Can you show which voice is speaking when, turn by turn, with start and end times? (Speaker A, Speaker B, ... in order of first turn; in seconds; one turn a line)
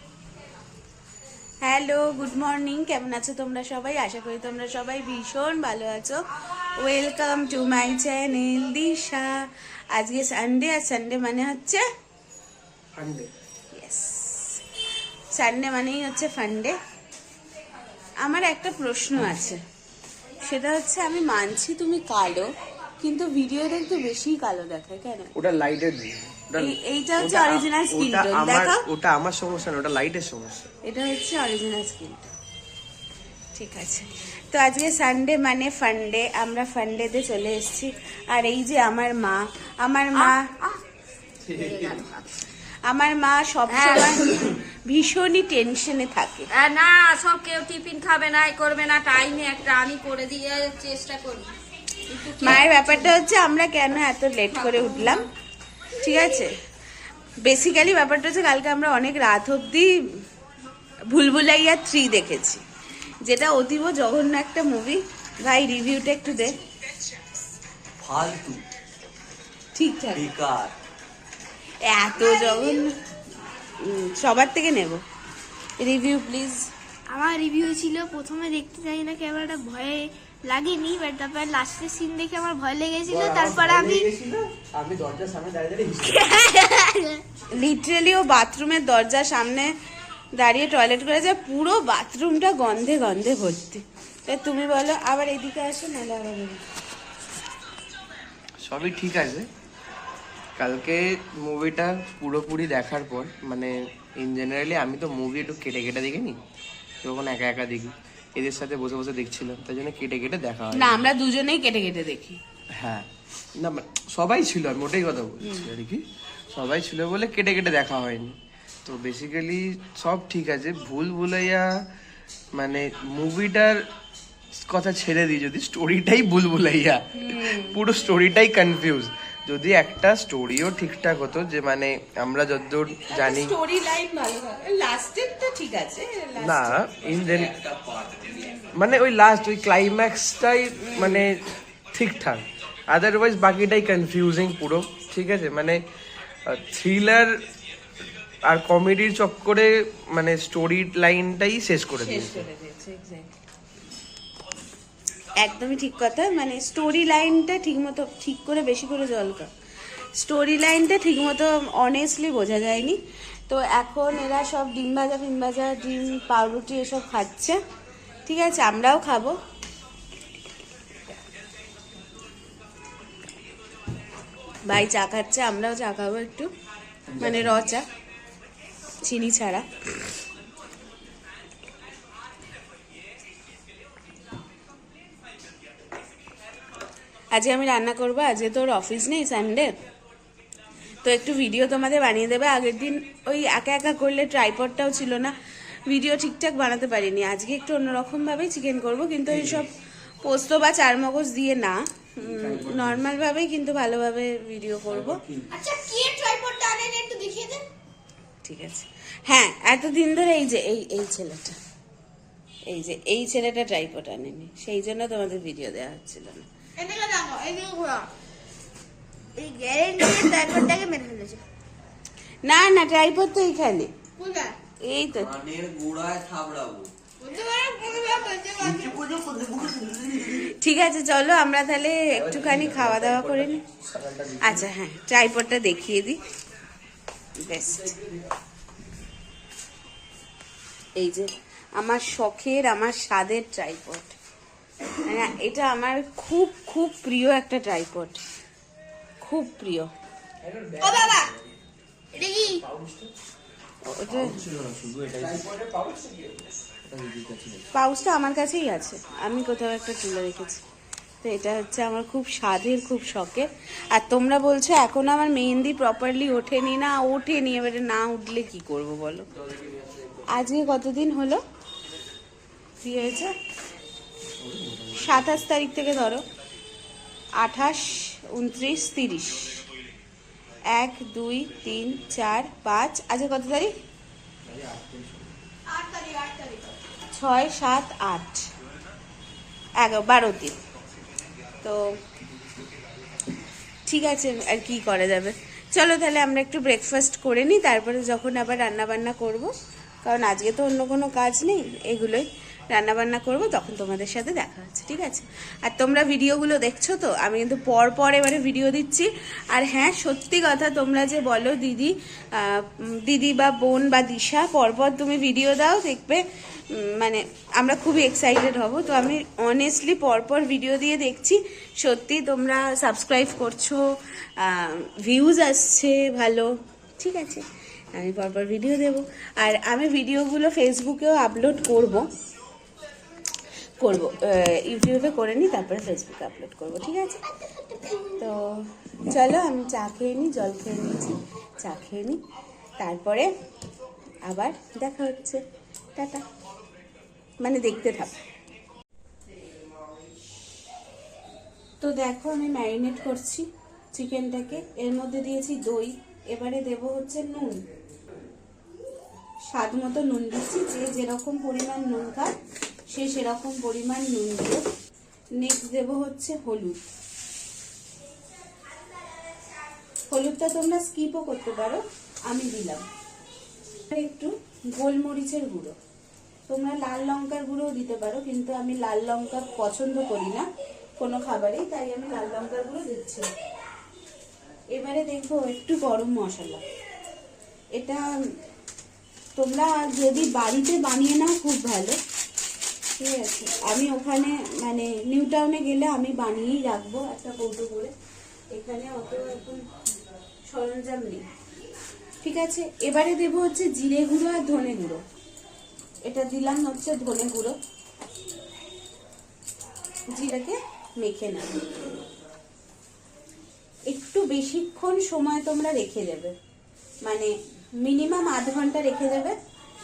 Speaker A: 1.6-11.8
Speaker B: 13.0-13.3
Speaker A: 13.7-14.6
Speaker A: 15.3-16.8
Speaker A: 18.2-19.6
Speaker A: 20.4-25.3
Speaker B: 25.4-30.7
Speaker A: 26.6-28.8
Speaker A: 30.8-32.3
Speaker A: 33.5-40.5
Speaker C: 40.2-40.8
Speaker C: 41.4-42.2
Speaker B: 41.5-42.0
Speaker A: 42.9-46.5
Speaker C: 43.7-44.4
Speaker C: 46.5-51.5
Speaker C: 52.1-53.1
Speaker A: 52.4-55.3
Speaker C: 54.5-55.3
Speaker A: 56.0-56.5
Speaker A: 57.4-59.9
Speaker A: 61.1-62.6
Speaker A: 63.2-66.6
Speaker D: 68.0-68.6
Speaker A: 69.8-70.2
Speaker D: 70.1-70.7
Speaker A: 71.8-72.9
Speaker A: 73.8-75.0
Speaker A: 75.8-76.7
Speaker E: 77.1-84.1
Speaker B: 83.0-86.3
Speaker E: 86.0-87.2
Speaker A: 87.5-89.7
Speaker A: 90.3-96.6
Speaker B: 98.6-99.5
Speaker B: 100.6-106.4
Speaker B: 107.0-111.0
Speaker A: 110.7-112.4
Speaker B: 112.7-121.8
Speaker A: 115.4-115.7
Speaker B: 122.5-123.8
Speaker B: 124.5-133.5
Speaker A: 127.1-127.8
Speaker A: 133.1-136.8
Speaker B: 136.4-137.5
Speaker D: 137.0-138.7
Speaker B: 138.7-145.8
Speaker A: 140.8-141.2
Speaker B: 146.4-147.4
Speaker B: 148.4-152.4
Speaker A: 151.9-153.3
Speaker A: 155.4-159.5
Speaker A: 160.1-167.6
Speaker A: 168.2-169.4
Speaker A: 174.7-176.5
Speaker B: 177.1-177.7
Speaker A: 177.2-177.8
Speaker A: 179.0-179.7
Speaker A: 187.3-189.7
Speaker A: 191.0-199.7
Speaker B: 199.3-199.6
Speaker A: 200.2-205.2
Speaker B: 202.2-203.0
Speaker B: 204.9-205.5
Speaker E: 205.5-207.6
Speaker A: 208.4-211.6
Speaker A: 212.7-216.4
Speaker E: 216.8-218.1
Speaker E: 219.4-221.4
Speaker A: 222.4-223.9
Speaker E: 224.2-224.5
Speaker A: 224.8-225.3
Speaker D: 225.1-226.9
Speaker E: 227.2-229.0
Speaker D: 228.6-230.4
Speaker B: 229.6-230.2
Speaker A: 230.3-233.6
Speaker B: 232.1-234.7
Speaker A: 234.4-236.2
Speaker A: 237.4-237.9
Speaker A: 240.9-244.2
Speaker A: 245.0-248.2
Speaker A: 249.2-249.9
Speaker B: 250.4-251.3
Speaker E: 250.8-251.3
Speaker E: 252.1-252.6
Speaker B: 252.4-253.1
Speaker A: 253.8-254.4
Speaker B: 254.1-256.4
Speaker D: 254.4-255.4
Speaker B: 256.9-257.6
Speaker A: 257.7-260.6
Speaker A: 261.2-269.3
Speaker B: 269.5-270.1
Speaker A: 270.3-271.4
Speaker A: 272.8-273.4
Speaker B: 274.4-275.4
Speaker A: 275.0-276.2
Speaker A: 277.4-279.6
Speaker A: 280.7-283.8
Speaker B: 284.4-285.3
Speaker E: 285.7-286.8
Speaker A: 287.1-288.5
Speaker A: 289.8-290.6
Speaker A: 291.6-291.9
Speaker A: 293.9-299.5
Speaker A: 300.1-332.1
Speaker A: 333.8-337.2
Speaker E: 337.5-338.2
Speaker A: 338.2-342.2
Speaker A: 342.8-343.3
Speaker A: 344.2-345.4
Speaker A: 345.9-346.2
Speaker A: 347.4-348.2
Speaker A: 351.8-357.6
Speaker A: 359.5-362.3
Speaker A: 362.9-364.6
Speaker A: 365.4-366.8
Speaker A: 370.1-372.9
Speaker A: 373.9-375.8
Speaker A: 376.5-380.5
Speaker A: 381.0-383.3
Speaker A: 384.7-386.6
Speaker A: 387.8-388.1
Speaker A: 389.4-392.0
Speaker A: 393.0-397.9
Speaker A: 398.5-399.7
Speaker A: 400.5-401.2
Speaker A: 402.2-405.0
Speaker A: 406.1-407.6
Speaker A: 410.1-411.6
Speaker A: 413.9-416.3
Speaker A: 417.1-419.4